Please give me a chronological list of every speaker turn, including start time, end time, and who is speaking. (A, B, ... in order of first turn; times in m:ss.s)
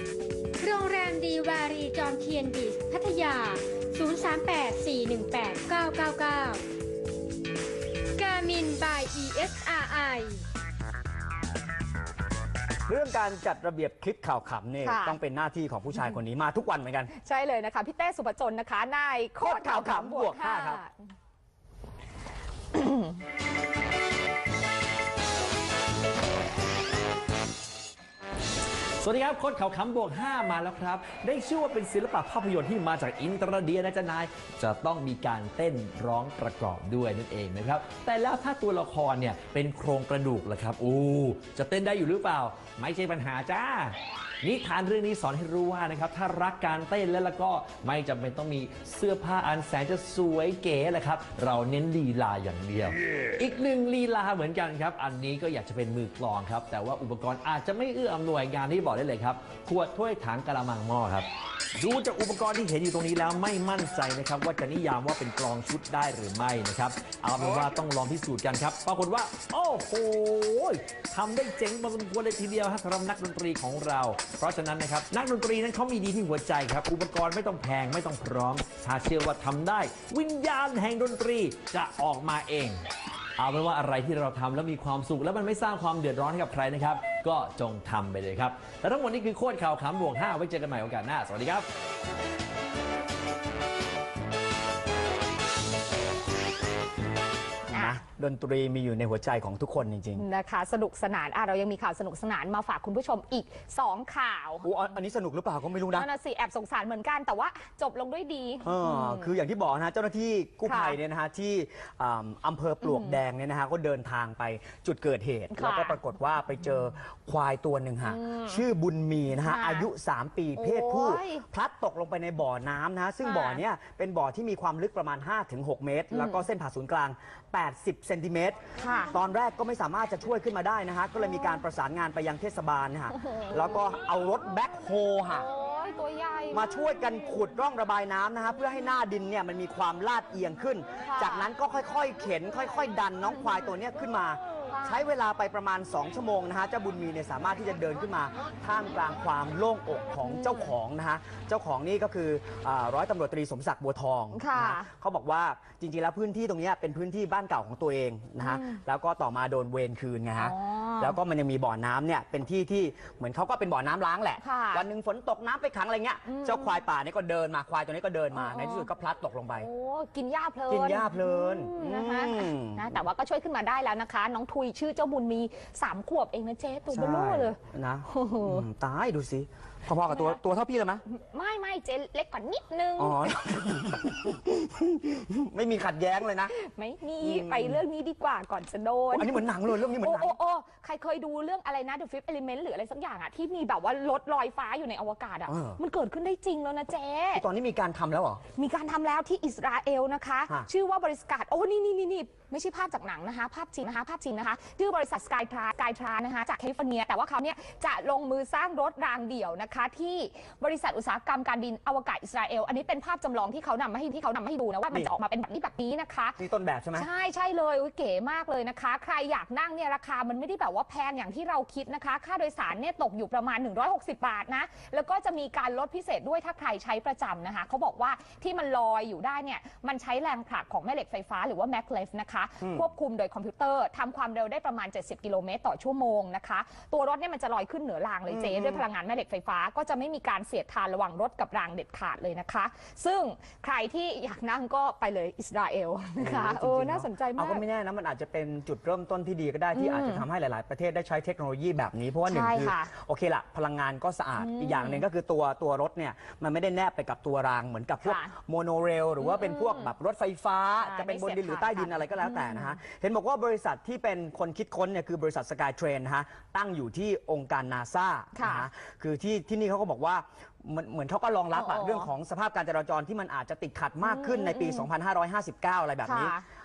0:00.6-0:06.6 A
0:08.2-0:10.4 A
0:12.9-0:17.1 B
0:14.8-0:15.2 C
0:17.1-0:21.0 C
0:19.4-0:20.8 B
0:22.7-0:23.1 C
0:29.0-1:22.8 D
1:23.4-1:31.6 D
1:37.7-1:40.2 B
1:37.7-1:38.0 C
1:40.2-1:44.7 C
1:44.6-1:46.1 B
1:45.9-1:49.3 C
1:48.6-2:15.5 B
1:50.6-1:51.0 C
1:52.8-1:53.2 C
1:55.5-1:56.0 C
1:58.0-1:58.6 C
1:59.4-1:59.9 C
2:00.6-2:01.4 C
2:03.2-2:03.6 C
2:06.1-2:06.4 C
2:08.8-2:09.2 C
2:15.3-2:16.9 C
2:16.5-2:49.7 B
2:21.0-2:21.5 C
2:24.7-2:25.0 C
2:30.3-2:30.7 C
2:34.3-2:34.9 C
2:38.4-2:38.8 C
2:40.4-2:41.2 C
2:44.4-2:44.8 C
2:46.2-2:46.8 C
2:48.3-2:48.9 C
2:49.6-2:57.6 C
2:50.7-2:52.9 B
2:56.9-3:01.0 B
2:58.1-2:58.6 C
3:00.1-3:00.4 C
3:01.1-3:03.3 C
3:03.0-3:06.5 B
3:06.5-3:17.4 C
3:07.2-3:07.8 B
3:09.1-3:10.4 B
3:15.5-3:15.8 B
3:17.3-3:18.4 B
3:18.5-3:36.4 C
3:36.4-3:37.1 B
3:36.9-4:07.6 C
3:58.3-3:58.8 B
4:06.2-4:36.4 B
4:09.7-4:10.2 C
4:12.2-4:12.9 C
4:14.4-4:15.0 C
4:18.0-4:18.3 C
4:19.2-4:19.9 C
4:20.8-4:22.8 C
4:28.3-4:28.7 C
4:31.5-4:32.1 C
4:34.0-4:34.9 C
4:36.0-4:36.4 C